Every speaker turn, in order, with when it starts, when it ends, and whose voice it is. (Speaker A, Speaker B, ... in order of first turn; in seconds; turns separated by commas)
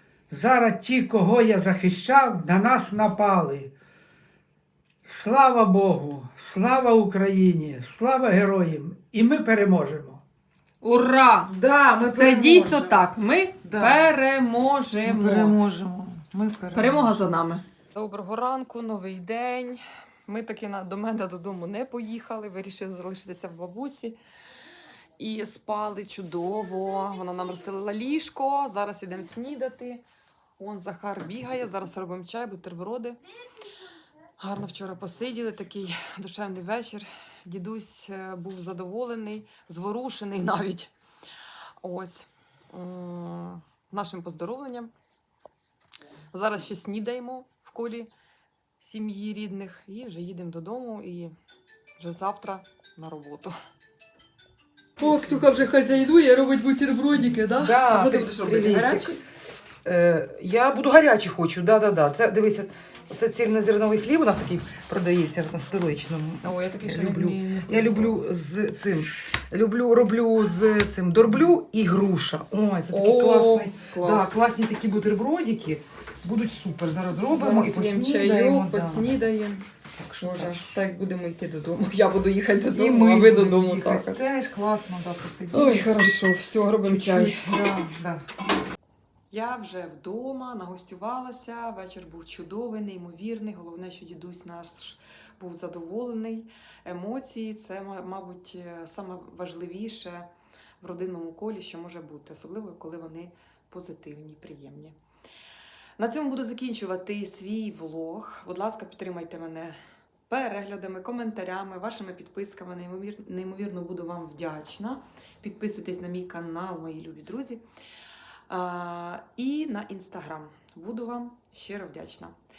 Speaker A: 0.3-3.7, Speaker A: 5.0-10.2, Speaker B: 10.8-15.6, Speaker C: 11.5-13.1, Speaker C: 13.6-14.1, Speaker C: 15.0-17.2, Speaker B: 16.7-24.2, Speaker B: 25.2-30.0, Speaker B: 30.6-33.2, Speaker B: 34.4-40.9, Speaker B: 41.8-44.9, Speaker B: 46.3-48.1, Speaker B: 48.8-51.3, Speaker B: 52.0-53.5, Speaker B: 55.0-59.2, Speaker C: 57.6-59.1, Speaker C: 59.8-79.1, Speaker B: 66.4-68.1, Speaker B: 72.9-74.3, Speaker B: 77.3-79.7, Speaker C: 80.0-80.6, Speaker B: 80.2-84.2, Speaker C: 82.7-86.2, Speaker B: 85.5-87.5, Speaker C: 86.9-88.2, Speaker B: 89.3-100.3, Speaker B: 100.8-105.0, Speaker B: 106.0-109.8, Speaker B: 110.3-117.6, Speaker B: 118.5-122.3